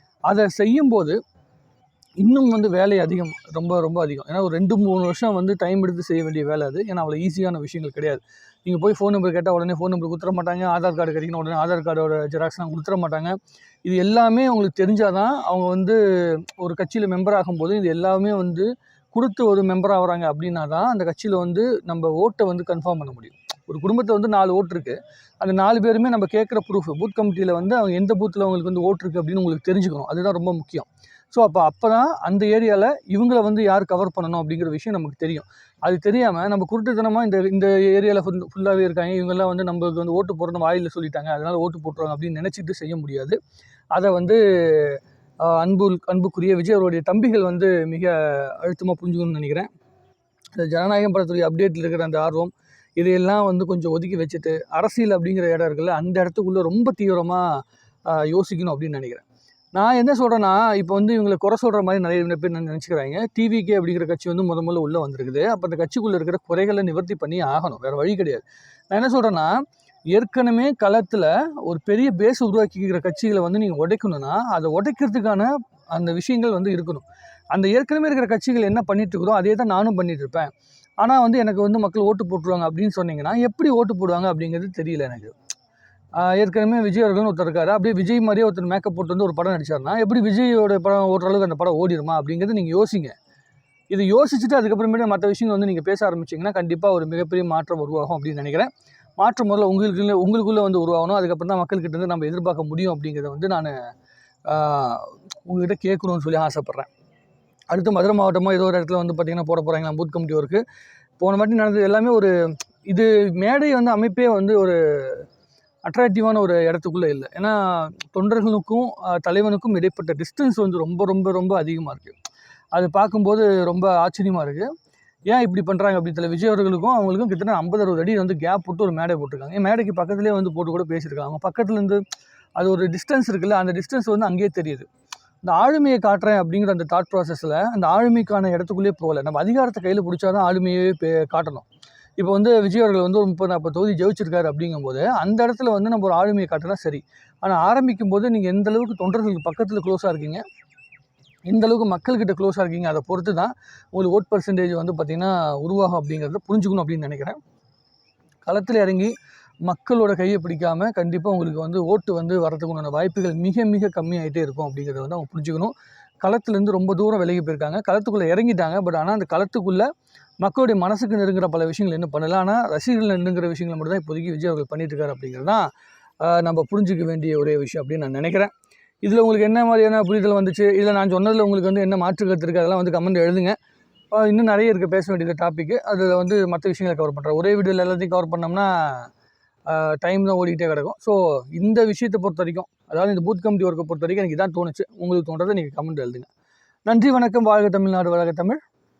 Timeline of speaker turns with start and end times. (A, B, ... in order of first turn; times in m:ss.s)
0:00.3-0:01.2 A
0:02.2-0:43.4 A
0:44.0-0:49.7 A
0:50.6-0:57.5 A
0:58.1-0:59.2 A
0:59.8-1:09.6 A
1:10.1-1:20.5 A
1:21.0-1:25.3 A
1:26.2-1:33.2 A
1:33.9-1:43.7 A
1:44.5-1:46.9 A
1:47.7-1:50.6 A
1:51.2-1:52.3 A
1:52.9-1:55.2 A
1:55.8-2:02.2 A
2:02.7-2:04.7 A
2:05.3-2:12.0 A
2:12.6-2:14.9 A
2:15.4-2:21.6 A
2:22.2-2:30.4 A
2:31.5-2:37.4 A
2:38.4-2:39.1 A
2:39.6-2:49.9 A
2:50.4-2:55.6 A
2:56.2-2:58.5 A
2:59.0-3:03.6 A
3:04.1-3:09.1 A
3:09.7-3:16.3 A
3:16.9-3:18.6 A